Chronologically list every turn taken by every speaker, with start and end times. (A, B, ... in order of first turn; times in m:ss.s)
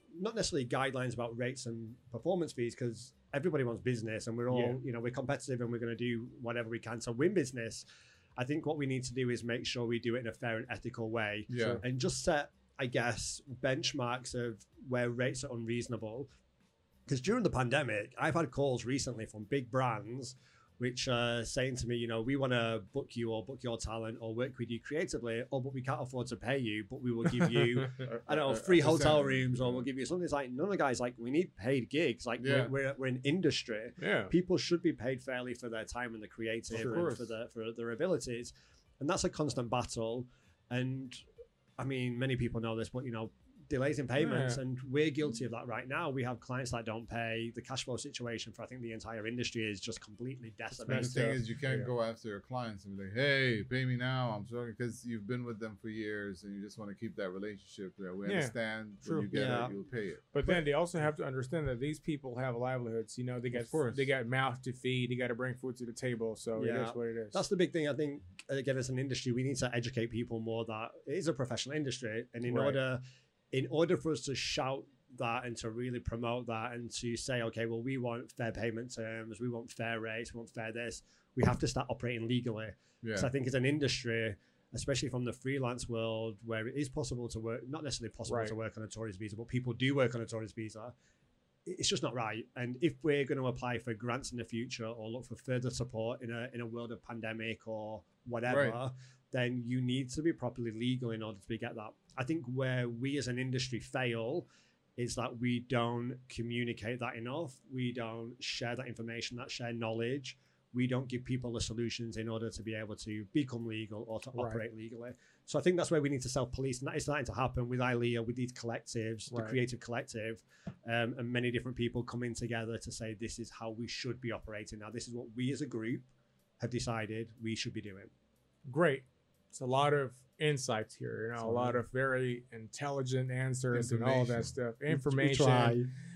0:00.2-0:07.8 A
0:04.5-0:04.8 B
0:08.4-0:16.3 A
0:11.5-0:11.8 C
0:17.1-0:41.2 A
0:27.4-0:27.9 B
0:28.0-0:29.8 C
0:32.4-0:32.7 C
0:34.0-0:34.3 B
0:36.7-0:37.3 C
0:41.8-0:51.3 A
0:44.2-0:44.6 B
0:50.9-0:51.9 B
0:50.9-1:00.2 C
0:58.2-0:59.3 B
0:59.3-0:59.7 A
1:00.3-1:07.4 B
1:03.5-1:04.1 C
1:06.6-1:13.0 A
1:12.5-1:12.8 B
1:13.5-1:30.9 A
1:23.0-1:23.3 C
1:28.3-1:28.5 B
1:31.6-1:44.4 A
1:38.5-1:38.8 C
1:45.0-2:06.0 A
1:59.3-1:59.6 B
2:06.6-2:08.1 A
2:08.6-2:15.8 B
2:11.4-2:11.8 A
2:13.7-2:14.5 C
2:14.9-2:15.9 A